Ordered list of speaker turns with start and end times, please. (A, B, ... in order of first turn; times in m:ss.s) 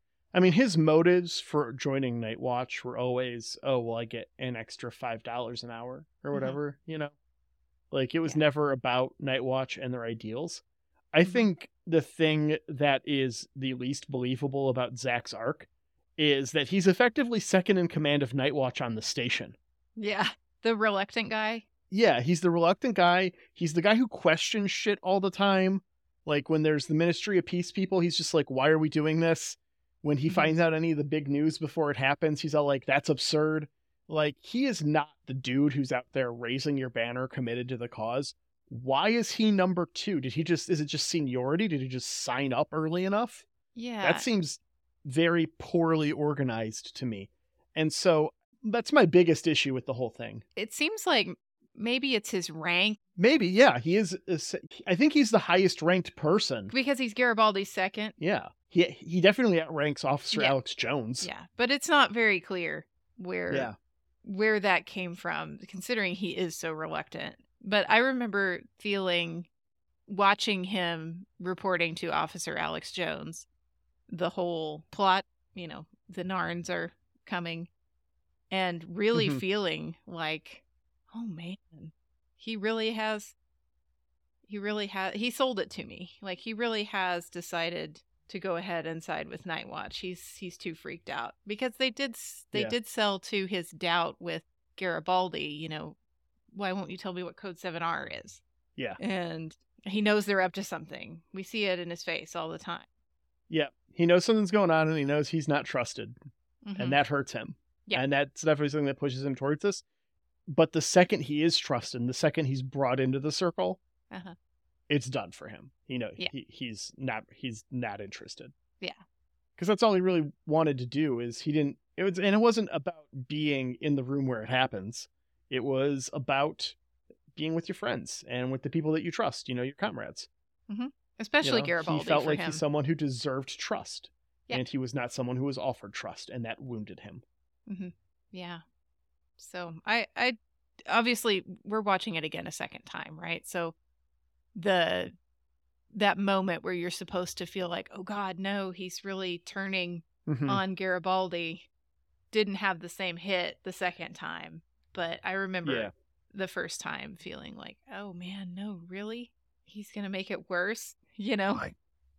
0:00.3-0:07.1 A
0:06.3-0:06.6 B
0:07.9-0:19.6 A
0:20.0-0:21.6 B
0:21.9-0:43.4 A
0:30.3-0:30.5 B
0:43.7-0:44.2 B
0:44.0-0:50.4 A
0:50.6-0:53.0 B
0:53.2-0:56.7 A
0:56.7-0:58.1 B
0:58.2-1:01.3 A
1:00.3-1:00.6 B
1:01.2-1:03.7 B
1:03.5-1:03.7 A
1:04.2-1:09.5 B
1:10.1-1:13.5 B
1:14.1-1:17.7 B
1:18.5-1:23.3 B
1:19.1-1:19.4 A
1:24.5-1:36.0 B
1:36.5-1:38.4 B
1:39.0-1:42.8 B
1:43.5-1:46.2 A
1:46.6-1:47.0 B
1:46.8-1:49.8 A
1:50.5-1:53.8 A
1:54.9-1:58.5 A
1:59.6-2:06.8 A
2:07.3-2:10.3 A
2:10.7-2:12.6 B
2:11.4-2:17.2 A
2:17.7-2:18.6 B
2:19.4-2:23.7 B
2:24.5-2:25.1 B
2:25.9-2:31.7 B
2:30.3-2:30.6 A
2:32.3-2:41.7 B
2:35.6-2:35.9 A